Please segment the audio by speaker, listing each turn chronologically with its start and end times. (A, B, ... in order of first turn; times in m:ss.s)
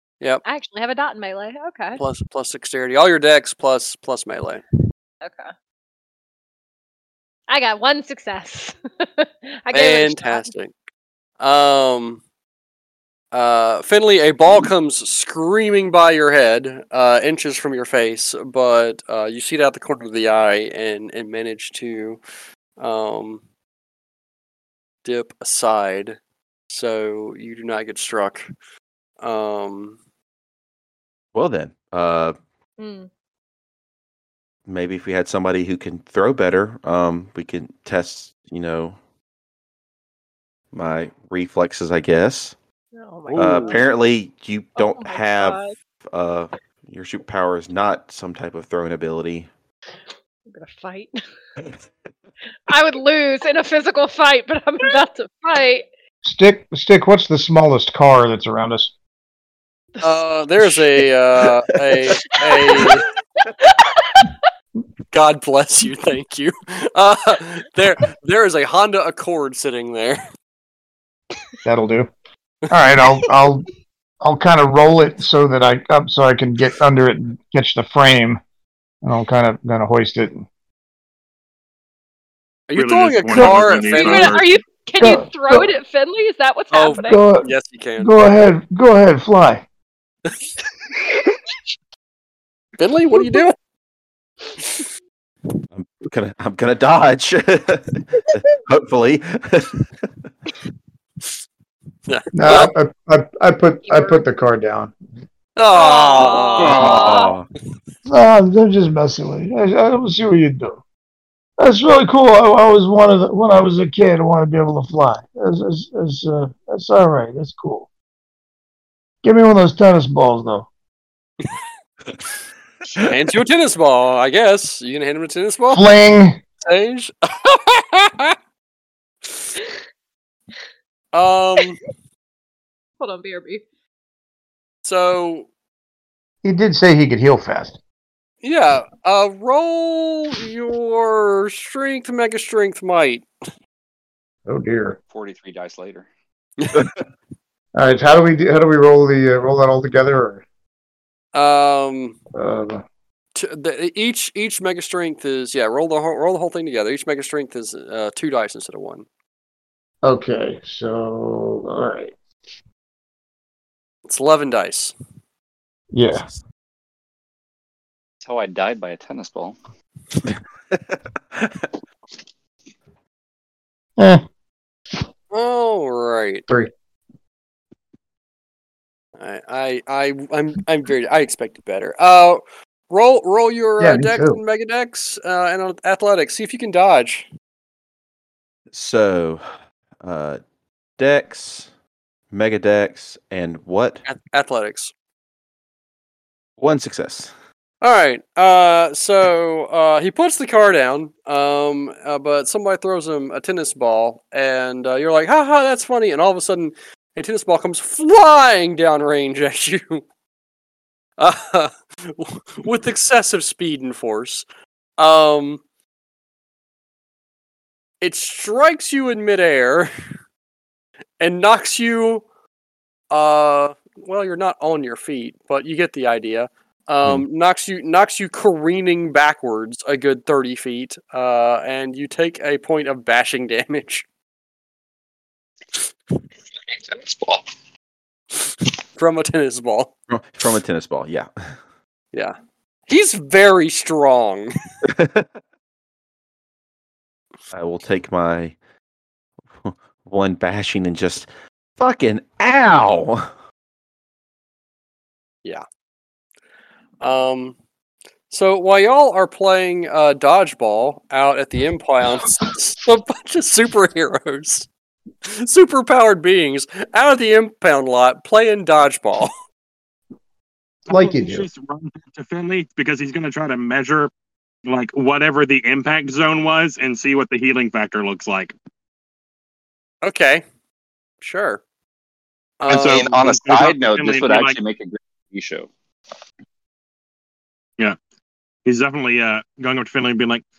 0:00.4-0:02.0 A
0:02.0-0:04.6 B
0:05.2-0:05.5 A
0:07.5-0:10.5 A
0:09.7-0:10.7 B
0:11.4-0:12.2 B
0:13.3-0:22.2 B
0:22.8-0:23.4 B
0:25.0-0:26.2 B
0:26.7-0:28.5 B
0:29.2-0:30.0 B
0:31.3-0:32.4 C
0:32.8-0:33.1 A
0:34.7-0:39.0 C
0:40.7-0:42.6 C
0:42.9-0:43.8 A
0:43.3-0:43.8 B
0:43.4-0:49.5 C
0:44.8-0:45.7 A
0:50.5-0:51.2 A
0:52.7-0:55.9 A
0:56.2-0:58.9 D
1:00.0-1:00.2 A
1:00.0-1:03.0 B
1:02.2-1:04.5 A
1:05.1-1:10.2 B
1:11.6-1:12.1 D
1:12.7-1:13.7 D
1:14.2-1:18.4 D
1:19.0-1:20.5 D
1:22.7-1:24.4 B
1:22.8-1:24.5 E
1:23.8-1:27.2 A
1:25.0-1:25.7 D
1:26.7-1:28.1 B
1:27.0-1:29.7 D
1:32.8-1:33.6 B
1:34.6-1:34.9 B
1:35.7-1:39.8 C
1:42.1-1:42.7 B
1:42.3-1:45.0 D
1:43.9-1:44.2 A
1:45.6-1:47.2 B
1:45.7-1:47.4 A
1:46.6-1:47.4 C
1:48.1-1:50.8 D
1:51.6-1:57.9 D
1:59.2-2:00.7 D
2:03.0-2:05.9 B
2:05.7-2:06.4 D
2:06.6-2:08.4 B
2:11.1-2:11.8 B
2:13.0-2:13.6 A
2:14.8-2:15.5 B
2:16.4-2:17.8 D
2:18.4-2:23.3 B
2:24.5-2:25.0 D
2:25.1-2:26.1 F
2:26.6-2:26.8 B
2:27.8-2:30.4 D
2:31.3-2:32.2 B
2:32.4-2:32.8 D
2:33.4-2:39.1 B
2:40.0-2:42.2 D
2:44.1-2:44.9 B
2:45.9-2:46.3 D
2:46.1-2:46.4 C
2:48.2-2:49.6 F
2:50.3-2:51.7 C
2:54.0-2:54.2 D
2:55.3-2:56.4 B
2:59.2-3:07.2 B
3:03.8-3:04.4 D
3:08.7-3:09.5 C
3:10.0-3:10.4 C
3:11.0-3:11.7 C
3:12.3-3:14.0 C
3:14.1-3:14.9 B
3:16.6-3:17.3 C
3:17.8-3:30.0 B
3:31.2-3:34.4 B
3:35.0-3:35.6 B
3:38.0-3:39.9 B
3:41.2-3:42.2 B
3:43.1-3:54.0 B
3:56.7-3:57.5 F
3:59.0-3:59.9 B
4:00.1-4:01.6 C
4:02.9-4:04.5 B
4:04.8-4:05.3 C
4:07.5-4:08.6 C
4:09.6-4:13.3 C
4:17.0-4:17.6 B
4:18.3-4:24.7 B
4:25.3-4:29.3 B
4:30.9-4:31.5 D
4:30.9-4:34.1 E
4:34.7-4:38.5 E
4:40.0-4:40.4 B
4:41.2-4:41.6 B
4:42.6-4:43.0 B
4:42.7-4:45.7 F
4:42.7-4:44.6 E
4:48.7-4:50.4 E